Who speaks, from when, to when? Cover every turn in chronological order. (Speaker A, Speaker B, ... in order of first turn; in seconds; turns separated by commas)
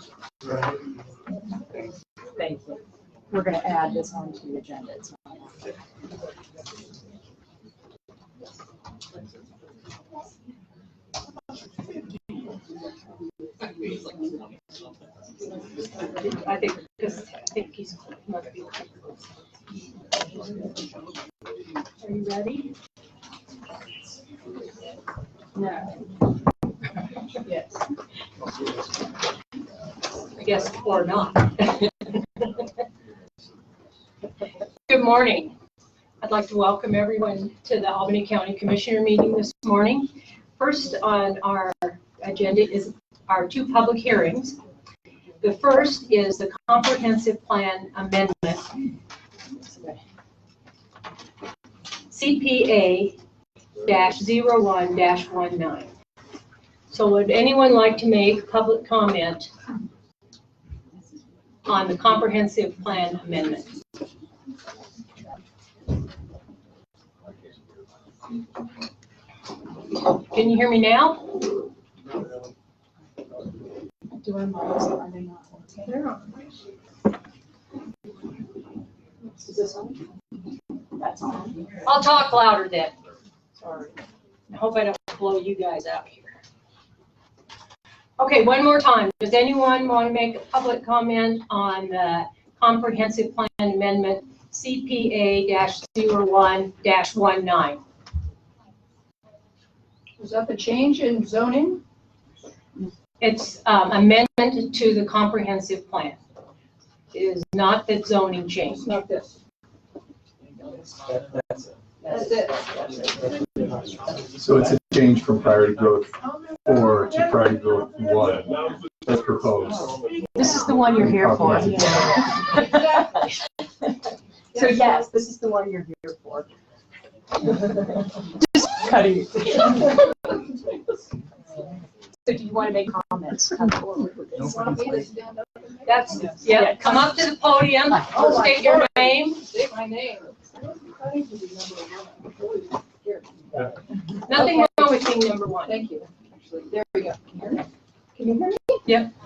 Speaker A: 2.4-2.8, Speaker A: 3.3-5.5, Speaker B: 16.2-19.1, Speaker B: 22.0-22.7, Speaker B: 30.4-32.5, Speaker B: 34.9-35.5, Speaker B: 36.2-44.6, Speaker B: 45.4-48.7, Speaker B: 52.1-53.2, Speaker B: 53.9-55.9, Speaker B: 56.9-59.5, Speaker B: 61.7-63.7, Speaker B: 70.3-71.3, Speaker A: 74.2-75.9, Speaker B: 75.8-76.2, Speaker A: 81.0-81.7, Speaker B: 81.8-82.9, Speaker B: 84.5-86.4, Speaker B: 88.2-97.8, Speaker C: 100.2-101.8, Speaker B: 103.2-106.2, Speaker B: 107.1-108.9, Speaker C: 108.7-109.4, Speaker C: 112.1-113.1, Speaker D: 114.4-119.9, Speaker D: 120.4-122.0, Speaker A: 120.6-123.1, Speaker A: 124.5-126.5, Speaker A: 128.4-130.0, Speaker A: 132.3-134.5, Speaker C: 134.3-136.7, Speaker B: 135.8-139.4, Speaker C: 138.1-143.8, Speaker B: 144.3-145.8, Speaker C: 144.3-144.7, Speaker C: 145.7-147.7, Speaker C: 148.2-148.8, Speaker B: 148.9-149.1